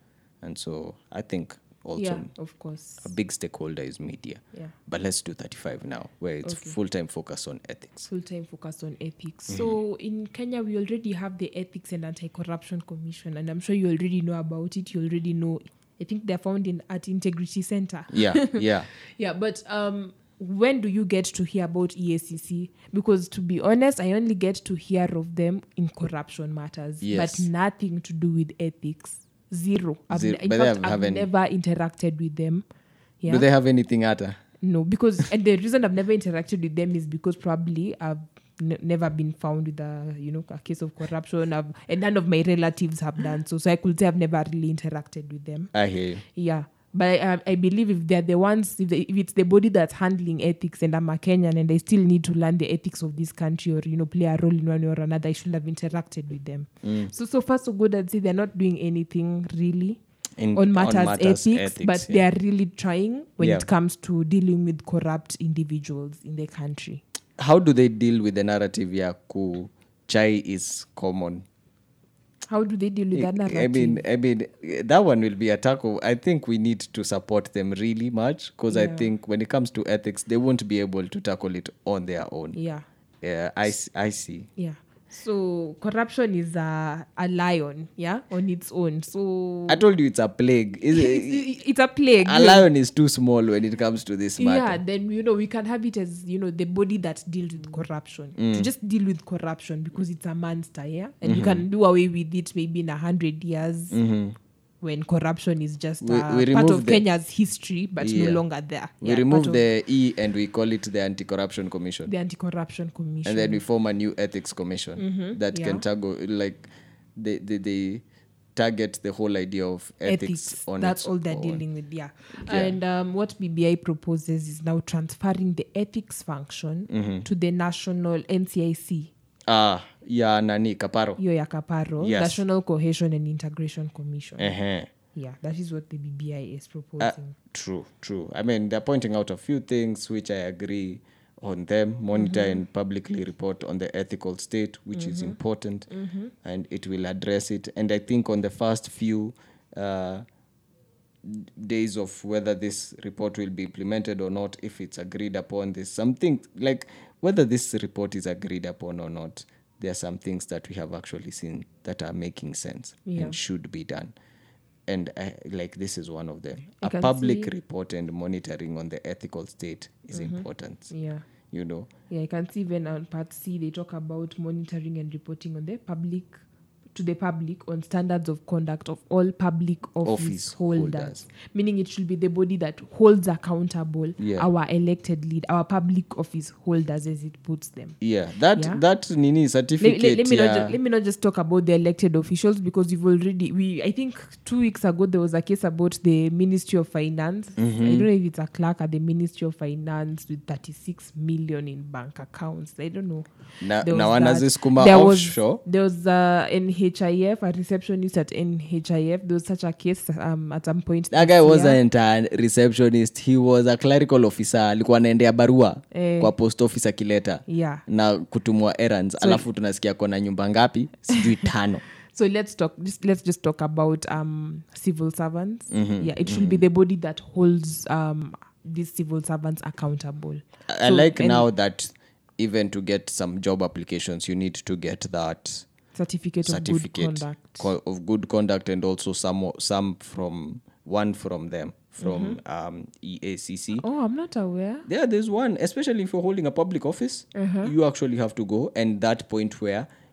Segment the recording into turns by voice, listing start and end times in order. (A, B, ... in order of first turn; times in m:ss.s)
0:00.4-0:02.3 A
0:02.0-0:03.1 B
0:03.0-0:08.1 A
0:06.4-0:06.8 B
0:08.1-0:32.6 B
0:09.5-0:09.8 A
0:18.1-0:18.9 A
0:27.0-0:27.5 A
0:30.1-0:31.3 A
0:33.2-0:33.5 B
0:33.3-0:34.4 A
0:34.6-0:45.7 B
0:45.7-0:46.2 A
0:46.3-1:00.0 B
0:56.8-0:57.1 A
1:00.4-1:02.2 A
1:00.5-1:07.0 B
1:03.4-1:03.6 A
1:07.4-1:11.5 A
1:12.5-1:14.0 B
1:13.1-1:22.6 A
1:18.7-1:19.1 B
1:22.5-1:22.8 B
1:23.2-1:24.5 A
1:24.6-1:29.8 B
1:29.7-1:31.5 A
1:30.9-1:32.7 B
1:32.2-1:34.8 A
1:34.4-1:44.0 B
1:38.4-1:38.7 A
1:41.2-1:41.6 A
1:43.9-1:44.4 A
1:44.8-1:49.6 B
1:46.0-1:47.0 A
1:48.0-1:48.4 A
1:49.0-1:52.1 A
1:52.1-1:53.6 B
1:53.2-1:58.0 A
1:55.0-1:55.8 B
1:58.6-2:01.6 A
2:00.0-2:09.1 B
2:02.5-2:02.8 A
2:06.9-2:07.3 A
2:09.5-2:11.2 A
2:11.2-2:14.6 B
2:12.0-2:12.4 A
2:14.4-2:14.9 A
2:15.2-2:17.4 B
2:17.0-2:25.9 A
2:22.2-2:22.6 B
2:24.9-2:25.4 B
2:25.9-2:26.3 B
2:26.4-2:30.2 A
2:31.2-2:44.1 A
2:43.1-2:43.4 B
2:44.9-2:50.9 A
2:46.8-2:47.5 B
2:50.1-2:51.2 B
2:51.5-2:51.9 A
2:52.1-2:56.4 B
2:57.0-3:08.0 B
3:00.0-3:01.3 A
3:04.2-3:04.5 A
3:08.0-3:10.8 A
3:08.6-3:08.8 B
3:09.8-3:23.3 B
3:17.6-3:18.1 A
3:23.6-3:25.6 A
3:23.8-3:31.8 B
3:31.1-3:41.8 A
3:35.9-3:36.3 B
3:37.5-3:37.8 B
3:39.2-3:39.4 B
3:42.1-3:51.5 B
3:45.7-3:46.6 A
3:50.7-3:55.7 A
3:56.0-3:57.7 B
3:56.4-4:03.8 A
4:02.0-4:02.4 B
4:03.8-4:04.9 B
4:04.9-4:09.9 A
4:07.4-4:07.7 B